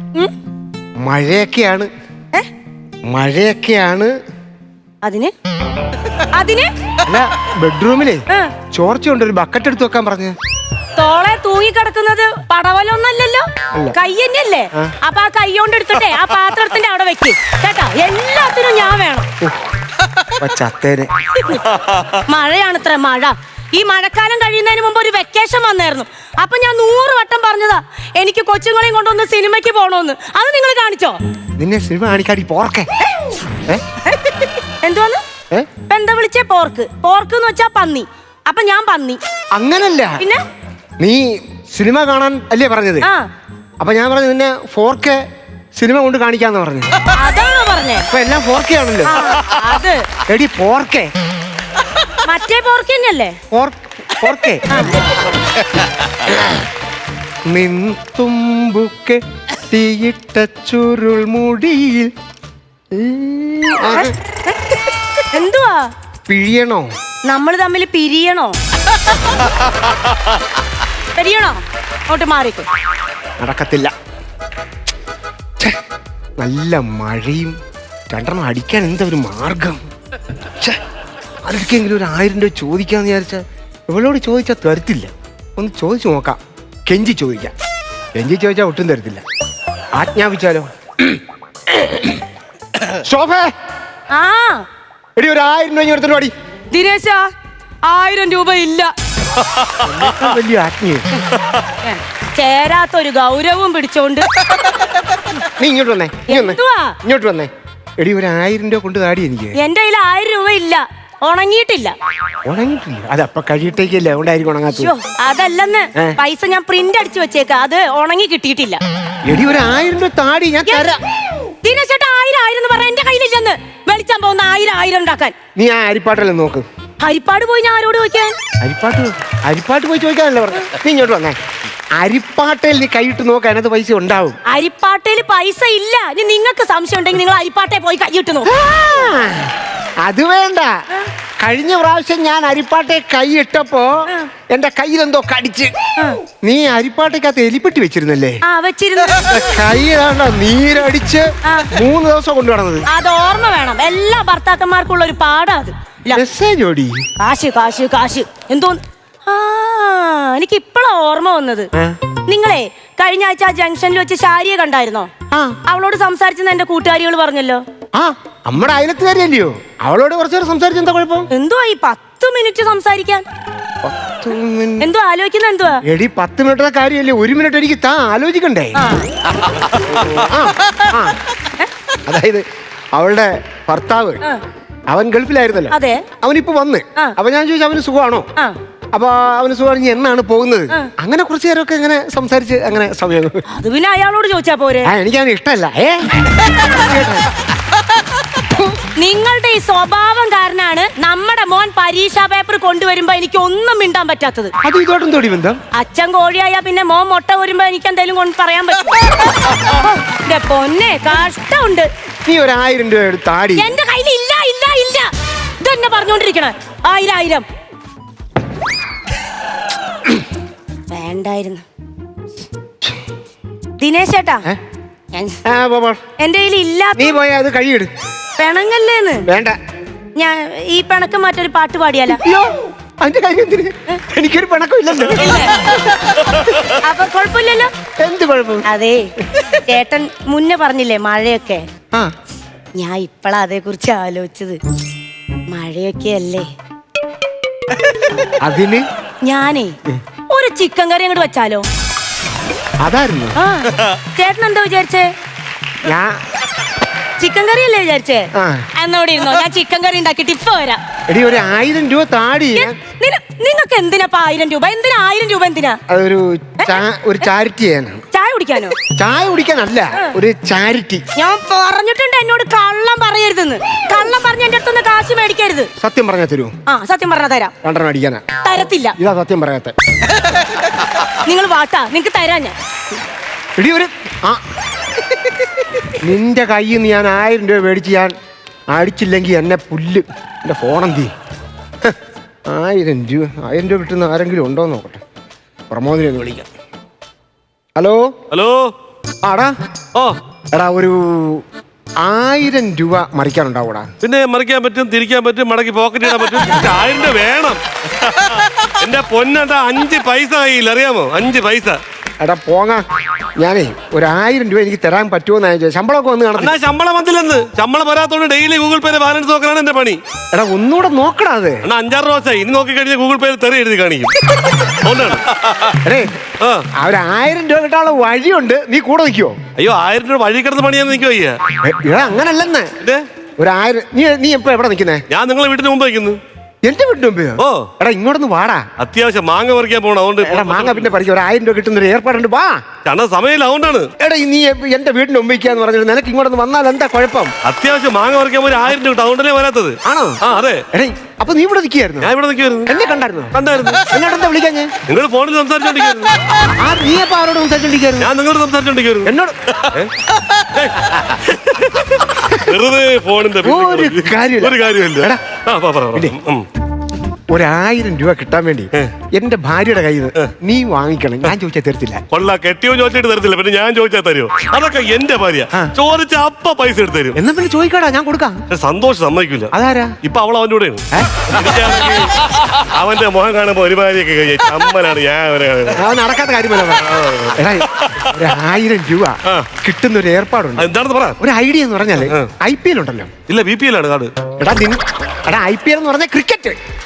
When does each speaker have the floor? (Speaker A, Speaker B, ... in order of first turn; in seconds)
Speaker A: 1.0-1.9, 3.1-4.1, 7.0-10.3, 20.3-21.1, 31.6-32.9, 35.5-35.8, 39.5-40.2, 41.0-43.1, 43.8-45.2, 45.8-46.9, 48.1-49.2, 50.3-51.1, 53.5-54.7, 56.3-56.6, 57.5-62.1, 62.9-64.2, 66.2-66.9, 73.4-73.9, 76.4-77.5, 78.1-79.8, 81.4-87.5, 88.1-89.2, 89.9-92.2, 92.9-93.5, 95.2-96.3, 99.8-101.1, 105.5-109.6, 112.4-114.9, 119.2-121.0, 125.5-126.6, 128.6-131.4, 132.0-134.4, 138.4-140.7, 141.4-145.7, 146.3-148.4, 149.3-152.9, 156.1-157.1, 161.8-162.1, 165.3-165.6, 167.9-171.3, 173.8-174.9, 175.8-178.8, 180.1-181.2, 182.1-182.4, 182.9-184.2, 184.9-188.3, 188.9-193.4, 194.8-197.3, 198.4-198.8, 204.6-205.6, 212.2-213.7, 225.4-226.0, 226.9-227.9, 229.2-229.6, 232.1-236.8, 238.0-238.7, 248.4-248.8, 252.8-253.4, 255.8-256.2, 258.3-258.7, 261.1-262.8, 265.9-268.1, 268.8-271.0, 275.8-276.6, 277.6-278.2, 279.0-279.8, 283.6-284.4, 285.9-288.1, 288.7-291.1, 291.8-295.0, 295.7-296.5, 297.8-298.1, 299.2-299.5, 300.6-301.4, 302.0-303.9, 312.2-312.8, 313.4-316.6, 320.3-321.7, 325.8-326.2, 326.8-329.4, 331.6-332.7, 333.4-335.0, 336.6-338.6, 340.2-342.6, 344.0-347.3, 349.8-350.2, 350.7-352.1, 352.7-354.7, 356.5-358.1, 359.0-359.5, 362.2-362.5, 363.4-365.2, 367.3-372.0, 377.1-378.4, 379.5-379.9, 380.9-381.3, 385.7-393.1, 394.4-396.6
Speaker B: 5.0-5.3, 6.2-6.7, 8.3-8.6, 11.0-19.3, 21.3-21.7, 22.2-31.2, 34.0-35.2, 35.8-39.2, 40.2-40.4, 43.0-43.3, 47.1-48.1, 49.0-50.1, 52.2-53.4, 54.7-55.1, 63.9-65.9, 67.3-68.6, 71.1-72.7, 94.1-94.7, 96.7-97.3, 97.8-98.9, 101.8-104.3, 106.2-107.0, 109.5-112.0, 114.7-118.8, 120.7-121.0, 121.5-125.4, 127.0-128.4, 134.5-138.5, 146.0-146.2, 148.5-149.7, 151.4-151.8, 152.9-156.2, 157.2-165.1, 165.7-167.6, 171.3-173.2, 174.8-175.8, 178.8-179.1, 181.4-181.7, 185.7-186.1, 193.5-194.9, 198.9-204.6, 205.7-211.9, 213.6-217.5, 220.9-221.7, 223.8-224.4, 225.1-225.4, 226.2-227.2, 228.4-229.2, 230.2-232.2, 235.2-235.7, 236.8-237.8, 238.7-241.7, 242.8-244.6, 245.5-246.5, 249.2-249.8, 250.3-251.7, 253.4-255.1, 257.2-260.8, 262.6-265.8, 266.6-266.9, 268.1-268.9, 271.1-275.7, 276.7-277.5, 278.4-278.9, 281.2-282.6
Speaker C: 99.4-100.3, 298.3-298.7, 304.0-311.8, 316.4-320.0, 321.6-325.8, 326.4-326.7, 329.6-331.4, 332.8-333.1, 335.1-336.2, 337.4-337.7, 338.8-340.9, 342.9-343.9, 347.4-350.7, 352.0-352.7, 353.3-353.9, 354.9-356.2, 358.0-366.4, 372.1-377.2, 378.5-385.8, 386.7-388.3, 389.2-389.5, 390.6-391.2, 392.0-392.3, 393.3-394.1